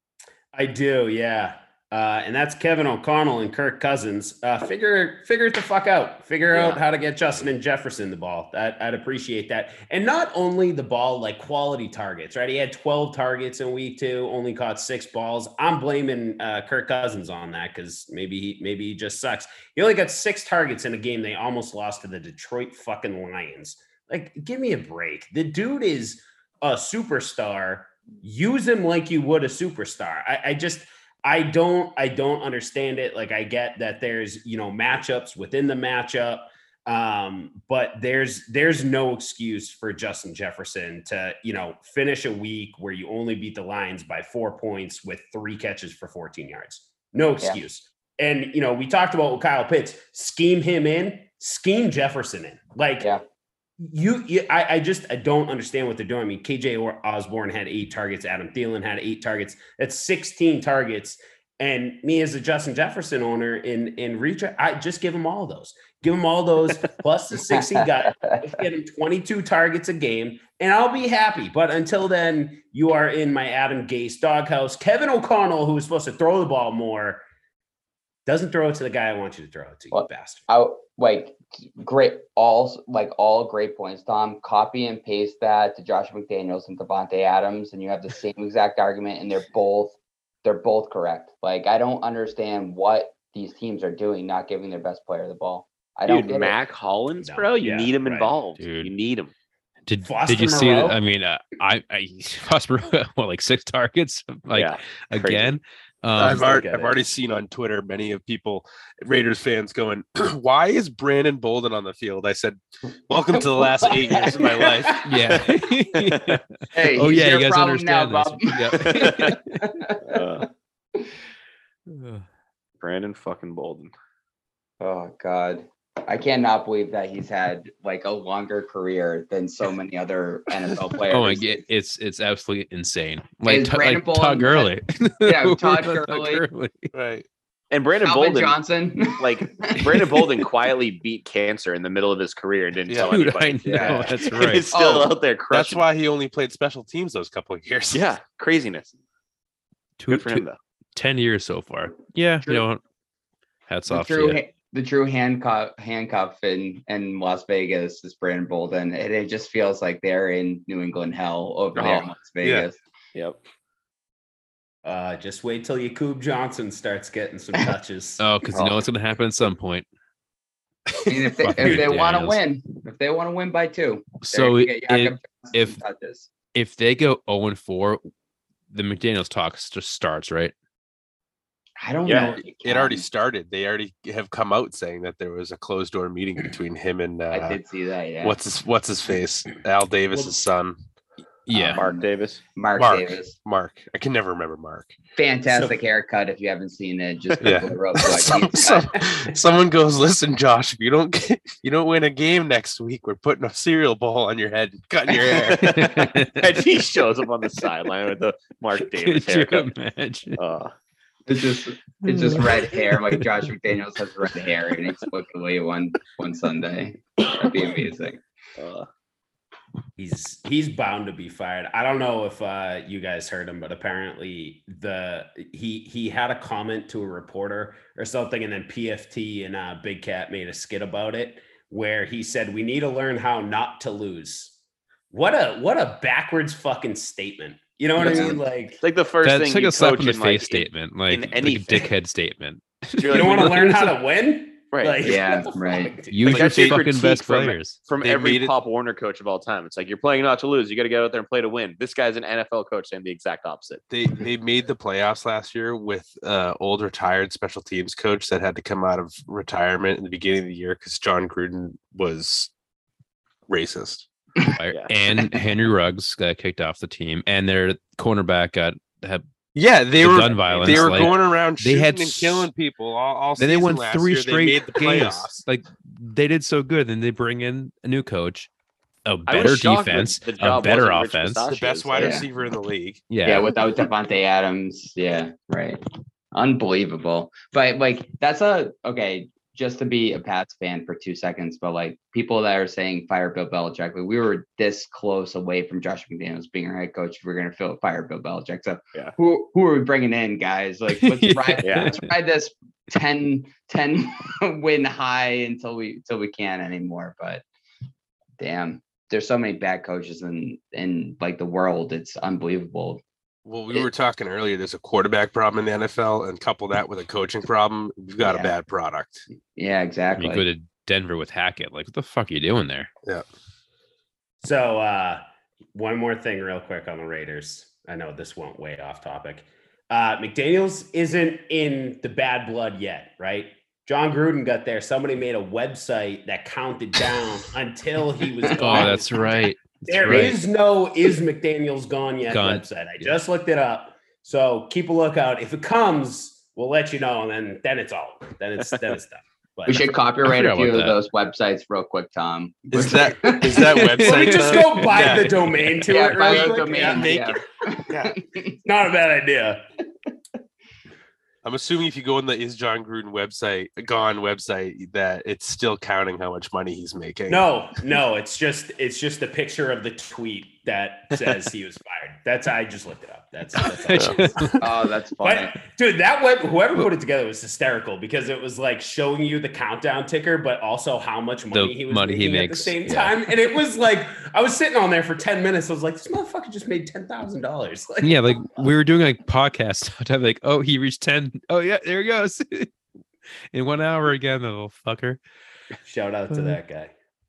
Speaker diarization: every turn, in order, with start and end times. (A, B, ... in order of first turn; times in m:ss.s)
0:00.5-0:53.1 A
0:06.5-0:06.8 B
0:53.8-1:17.2 A
1:07.4-1:08.6 B
1:18.2-1:20.4 A
1:19.9-1:36.5 B
1:36.1-1:39.3 C
1:37.2-1:38.3 A
1:38.6-1:38.9 D
1:39.9-1:46.5 D
1:40.0-1:41.0 A
1:44.5-1:45.6 C
1:46.2-1:55.1 E
1:46.2-1:47.0 A
1:53.6-1:54.5 B
1:55.0-1:59.4 D
1:56.0-1:56.4 C
1:56.7-2:00.2 B
1:58.8-1:59.4 C
2:00.0-2:00.5 C
2:01.9-2:02.2 D
2:02.8-2:03.9 C
2:04.8-2:11.6 B
2:11.1-2:16.9 D
2:13.4-2:14.7 B
2:15.2-2:16.4 B
2:16.9-2:17.2 E
2:17.7-2:18.5 C
2:18.0-2:20.4 B
2:19.2-2:25.8 C
2:23.1-2:24.6 D
2:23.6-2:24.1 B
2:24.7-2:25.1 B
2:25.5-2:28.1 E
2:27.9-2:28.9 C
2:30.0-2:32.8 D
2:30.1-2:30.6 C
2:33.7-2:34.4 D
2:33.9-2:42.8 B
2:41.8-2:42.1 C
2:44.8-2:48.2 A
2:48.2-2:49.8 D
2:48.5-2:48.8 B
2:50.9-2:52.4 D
2:51.0-2:56.3 B
2:54.2-2:55.8 D
2:56.5-2:58.0 D
2:58.7-3:00.5 D
3:01.8-3:03.0 B
3:02.0-3:02.3 C
3:02.4-3:07.6 E
3:07.3-3:08.4 B
3:08.2-3:10.8 E
3:11.4-3:11.8 D
3:11.5-3:12.0 B
3:11.8-3:12.4 C
3:12.5-3:13.4 B
3:12.8-3:14.9 E
3:15.2-3:19.0 B
3:17.4-3:26.0 E
3:25.3-3:29.7 C
3:25.6-3:26.4 D
3:28.9-3:30.4 D
3:30.4-3:30.7 C
3:31.3-3:38.2 B
3:32.0-3:33.2 D
3:38.6-3:38.9 C
3:40.0-3:54.5 A
3:55.1-3:58.8 A
3:58.0-3:58.4 B
3:58.8-4:01.9 C
3:59.2-4:03.9 D
4:03.0-4:03.8 C
4:03.1-4:06.4 A
4:04.7-4:05.2 C
4:05.0-4:05.9 B
4:06.1-4:07.8 D
4:06.2-4:13.8 C
4:06.3-4:06.8 E
4:08.0-4:08.5 E
4:13.9-4:22.5 E
4:23.5-4:24.0 E
4:24.6-4:29.2 D
4:29.5-4:35.3 E
4:30.0-4:32.5 D
4:30.2-4:31.2 C
4:33.4-4:38.5 D
4:39.0-4:41.4 D
4:39.3-4:42.2 C
4:41.5-4:43.0 E
4:41.9-4:42.2 B
4:43.1-4:43.5 D
4:43.2-4:45.8 B
4:46.3-5:07.4 B
5:01.0-5:02.1 D
5:01.6-5:02.0 C
5:08.4-5:13.0 B
5:13.4-5:19.2 E
5:18.2-5:18.5 B
5:19.6-5:20.4 B
5:20.2-5:22.9 D
5:24.4-5:25.2 A
5:25.7-5:49.9 A
5:38.4-5:38.9 B
5:38.5-5:40.4 D
5:42.3-5:42.6 D
5:49.6-5:53.8 B
5:50.2-5:51.0 D
5:52.7-5:55.3 E
5:53.7-5:55.9 D
5:53.9-5:57.2 A
5:55.9-5:58.6 B
5:56.2-5:58.1 E
5:58.6-5:59.6 A
6:01.4-6:07.4 E
6:07.3-6:14.6 A
6:13.6-6:14.6 D
6:13.9-6:14.2 E
6:14.6-6:15.6 B
6:15.2-6:28.7 A
6:21.5-6:23.2 D
6:28.0-6:32.7 D
6:33.5-6:35.2 D
6:35.8-6:36.9 A
6:36.3-6:36.6 D